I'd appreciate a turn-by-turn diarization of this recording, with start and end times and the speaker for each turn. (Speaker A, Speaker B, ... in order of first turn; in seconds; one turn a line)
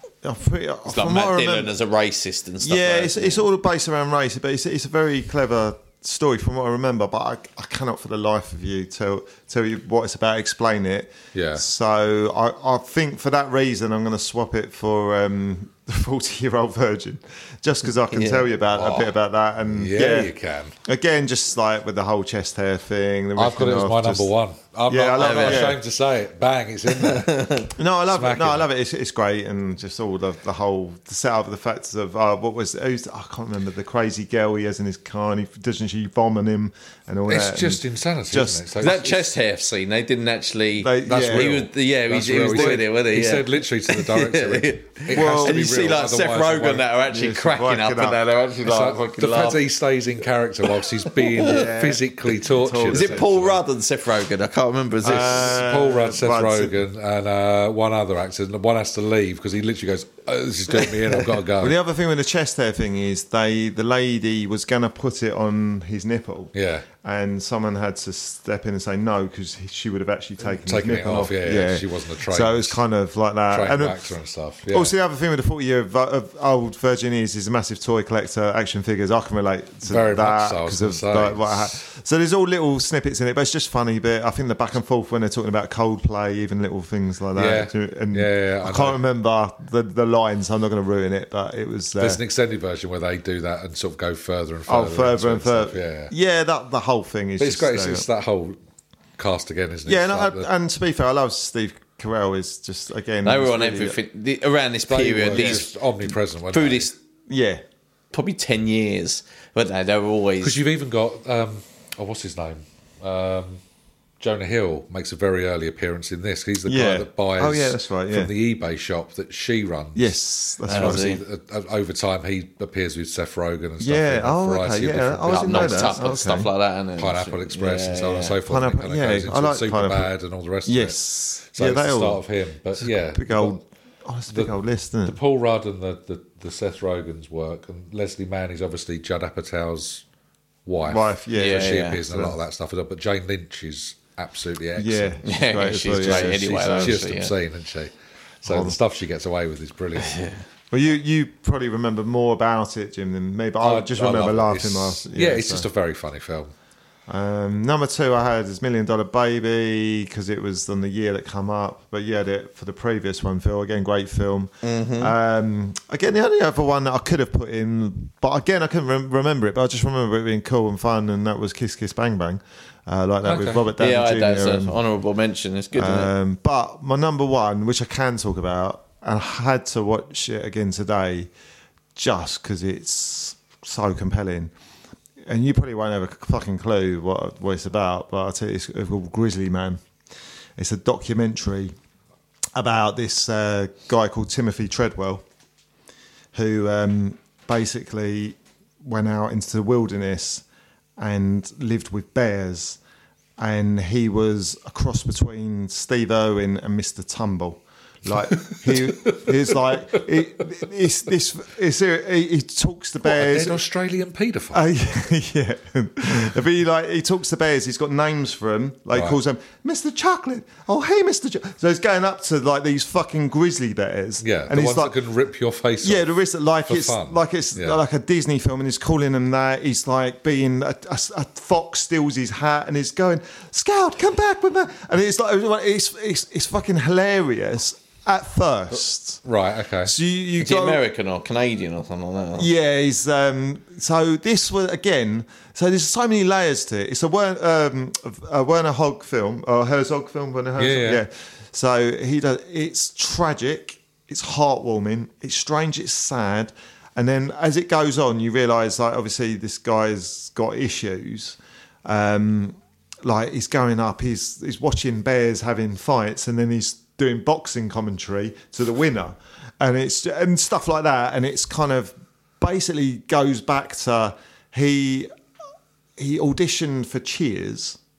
Speaker A: 0.2-1.7
Speaker B: 0.8-3.5
Speaker A: 2.6-20.3
Speaker C: 11.3-11.6
Speaker B: 18.1-18.5
Speaker C: 18.7-19.1
Speaker C: 19.6-20.8
Speaker A: 20.8-24.3
Speaker C: 23.4-28.7
Speaker A: 24.9-25.8
Speaker B: 25.2-25.8
Speaker B: 26.9-27.7
Speaker A: 27.7-38.9
Speaker C: 37.3-39.2
Speaker B: 38.8-49.6
Speaker A: 40.8-41.6
Speaker C: 41.0-46.9
Speaker A: 45.1-45.7
Speaker A: 47.1-48.2
Speaker C: 48.6-53.6
Speaker B: 51.0-51.7
Speaker A: 51.4-53.2
Speaker B: 52.9-55.6
Speaker A: 55.0-56.8
Speaker C: 55.1-61.8
Speaker A: 61.6-74.1
Speaker C: 66.5-66.9
Speaker C: 70.4-72.8
Speaker C: 73.5-74.9
Speaker A: 74.7-92.2
Speaker C: 79.8-81.8
Speaker C: 87.3-89.0
Speaker C: 92.0-96.1
Speaker A: 94.7-98.0
Speaker C: 97.4-98.6
Speaker C: 99.2-100.5
Speaker A: 99.9-104.0
Speaker B: 103.2-106.9
Speaker C: 104.9-106.9
Speaker A: 105.3-105.6
Speaker A: 107.3-107.6
Speaker B: 108.1-110.6
Speaker C: 110.4-113.6
Speaker C: 114.2-120.1
Speaker A: 116.7-118.3
Speaker A: 119.9-121.1
Speaker C: 120.7-126.1
Speaker B: 120.7-121.2
Speaker A: 123.8-126.5
Speaker B: 125.3-128.4
Speaker C: 127.0-131.0
Speaker A: 128.4-130.1
Speaker A: 130.7-132.2
Speaker C: 131.5-133.6
Speaker A: 132.8-135.2
Speaker C: 134.3-140.0
Speaker C: 140.7-145.2
Speaker A: 140.8-142.3
Speaker B: 141.3-142.0
Speaker A: 144.8-147.0
Speaker B: 145.2-147.3
Speaker C: 145.8-150.2
Speaker A: 148.4-148.8
Speaker B: 150.0-150.4
Speaker A: 150.7-155.7
Speaker C: 153.6-156.5
Speaker A: 157.1-174.8
Speaker B: 164.6-165.1
Speaker C: 173.2-173.7
Speaker B: 173.8-176.1
Speaker A: 175.7-181.3
Speaker A: 181.9-184.5
Speaker A: 185.2-189.8
Speaker A: 190.6-191.7
Speaker A: 192.5-195.2
Speaker A: 196.3-200.4
Speaker A: 201.0-202.8
Speaker A: 203.4-213.6
Speaker C: 208.3-210.0
Speaker C: 213.0-214.7
Speaker A: 214.5-224.9
Speaker C: 218.9-219.2
Speaker C: 224.2-226.1
Speaker A: 225.8-239.2
Speaker C: 226.6-227.8
Speaker C: 239.2-239.9
Speaker A: 239.8-240.8
Speaker B: 240.4-242.5
Speaker A: 242.4-275.1
Speaker C: 250.6-251.0
Speaker A: 276.0-277.8